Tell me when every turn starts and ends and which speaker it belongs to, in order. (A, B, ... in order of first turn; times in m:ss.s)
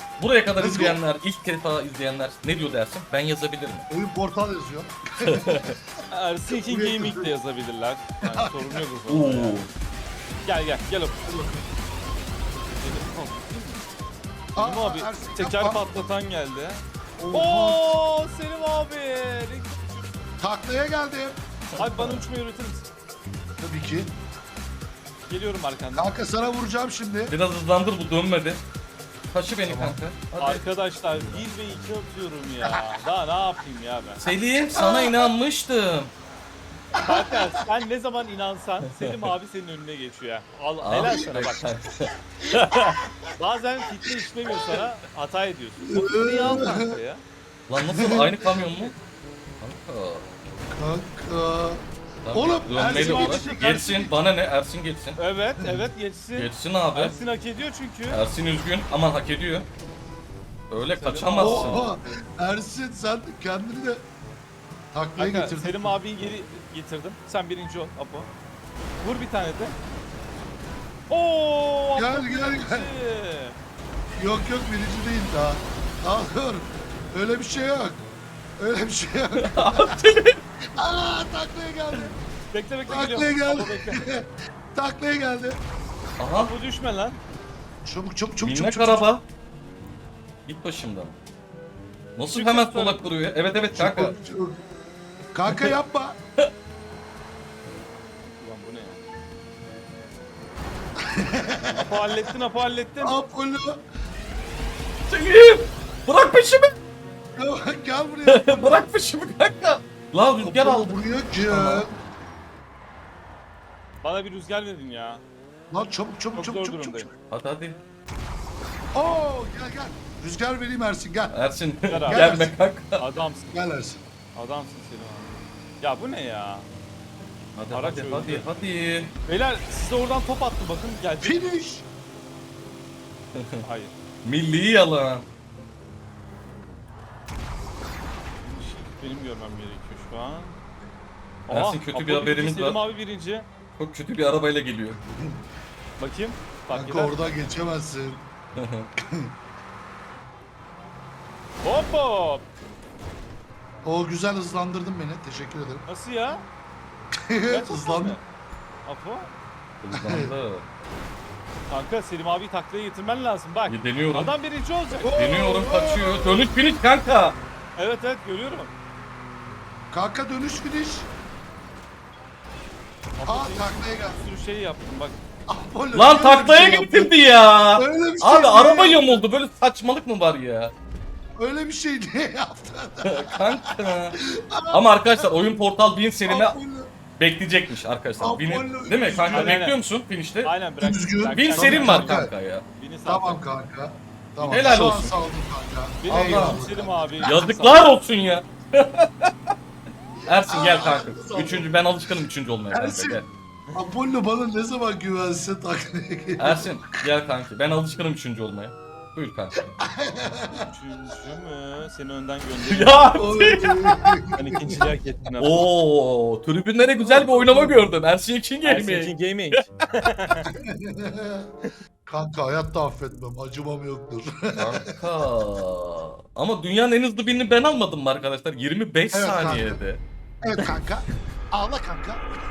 0:00.2-0:03.9 A
0:00.6-0:01.0 B
0:03.9-0:05.8 B
0:05.2-0:05.8 A
0:06.1-0:09.6 C
0:06.5-0:07.3 B
0:08.2-0:08.8 B
0:09.1-0:09.7 A
0:10.4-0:11.5 C
0:11.2-0:11.6 B
0:12.5-0:14.0 C
0:14.6-0:16.0 B
0:14.6-0:20.1 C
0:17.2-0:17.9 B
0:20.4-0:21.4 B
0:21.8-0:22.2 A
0:21.8-0:22.9 C
0:23.6-0:24.1 B
0:25.3-0:26.2 C
0:26.0-0:27.4 B
0:27.3-0:28.6 A
0:29.3-0:30.6 A
0:29.6-0:30.0 B
0:30.4-0:34.2 C
0:34.2-0:36.1 A
0:34.8-0:35.3 B
0:37.0-0:37.3 B
0:37.0-0:41.6 C
0:40.8-0:42.1 A
0:41.0-0:41.4 B
0:42.5-0:47.2 C
0:45.9-0:46.9 B
0:47.7-0:49.0 A
0:47.8-0:48.5 B
0:49.6-0:50.3 A
0:50.8-0:54.2 B
0:52.2-0:55.2 A
0:52.8-0:53.6 C
0:55.2-0:58.2 C
0:55.6-0:55.8 B
0:56.4-0:57.2 A
0:58.1-0:59.7 A
1:00.7-1:01.9 A
1:00.8-1:02.2 C
1:01.4-1:04.0 B
1:04.9-1:06.0 B
1:05.2-1:08.3 C
1:09.0-1:09.8 C
1:11.1-1:13.6 C
1:12.0-1:12.9 B
1:14.2-1:18.0 B
1:18.6-1:20.0 B
1:19.4-1:20.4 A
1:20.8-1:22.2 B
1:22.5-1:24.0 C
1:22.9-1:25.6 B
1:26.2-1:26.5 A
1:26.3-1:27.2 C
1:27.8-1:29.1 B
1:28.4-1:29.2 A
1:30.5-1:31.2 A
1:32.2-1:34.2 A
1:32.3-1:33.1 C
1:33.7-1:34.6 B
1:35.3-1:36.2 B
1:38.4-1:39.0 C
1:41.2-1:41.9 B
1:41.7-1:43.2 C
1:43.0-1:43.8 B
1:45.1-1:46.7 A
1:47.4-1:48.9 B
1:48.3-1:51.9 A
1:50.4-1:52.0 B
1:54.0-1:55.2 C
1:55.7-1:57.1 B
1:56.4-1:57.1 C
1:57.3-1:57.8 A
1:58.9-2:01.4 B
2:01.3-2:03.0 A
2:01.9-2:03.6 C
2:02.1-2:02.6 B
2:03.5-2:04.0 B
2:04.4-2:06.7 C
2:07.6-2:09.1 A
2:07.7-2:08.5 C
2:09.3-2:11.5 C
2:11.2-2:11.8 B
2:13.4-2:13.6 A
2:13.6-2:13.9 C
2:14.2-2:15.3 A
2:18.4-2:20.6 C
2:21.5-2:23.5 C
2:21.5-2:22.8 A
2:23.8-2:25.0 A
2:25.0-2:25.4 B
2:26.0-2:27.6 C
2:26.7-2:28.2 B
2:28.6-2:28.9 A
2:31.6-2:32.5 C
2:33.8-2:35.8 B
2:35.9-2:36.5 C
2:37.3-2:38.2 B
2:37.5-2:38.2 C
2:38.8-2:39.3 C
2:39.8-2:40.6 A
2:39.9-2:40.3 B
2:41.7-2:45.2 C
2:43.7-2:44.3 A
2:45.0-2:46.5 B
2:45.1-2:47.4 A
2:47.8-2:48.7 C
2:49.9-2:51.1 B
2:53.2-2:55.2 C
2:53.2-2:54.2 B
2:55.5-2:59.2 B
2:55.9-3:00.7 A
3:01.4-3:05.3 B
3:03.0-3:04.2 A
3:04.7-3:06.6 A
3:06.3-3:06.9 B
3:07.2-3:10.5 A
3:08.2-3:09.6 B
3:09.3-3:09.8 C
3:10.4-3:13.4 C
3:10.8-3:12.3 B
3:11.3-3:12.7 A
3:13.1-3:17.3 B
3:14.4-3:15.0 C
3:14.5-3:15.2 A
3:16.0-3:17.9 C
3:16.1-3:16.6 A
3:17.2-3:19.3 A
3:20.3-3:23.3 A
3:20.5-3:21.7 B
3:22.7-3:23.2 B
3:23.7-3:26.8 B
3:26.4-3:29.6 A
3:29.8-3:30.7 B
3:30.5-3:33.2 C
3:32.7-3:34.1 A
3:33.2-3:34.4 B
3:34.4-3:35.7 C
3:35.4-3:39.6 A
3:37.0-3:37.9 B
3:38.6-3:40.5 C
3:40.6-3:41.5 B
3:42.1-3:44.8 B
3:44.6-3:50.0 A
3:49.1-3:49.8 B
3:50.4-3:52.2 B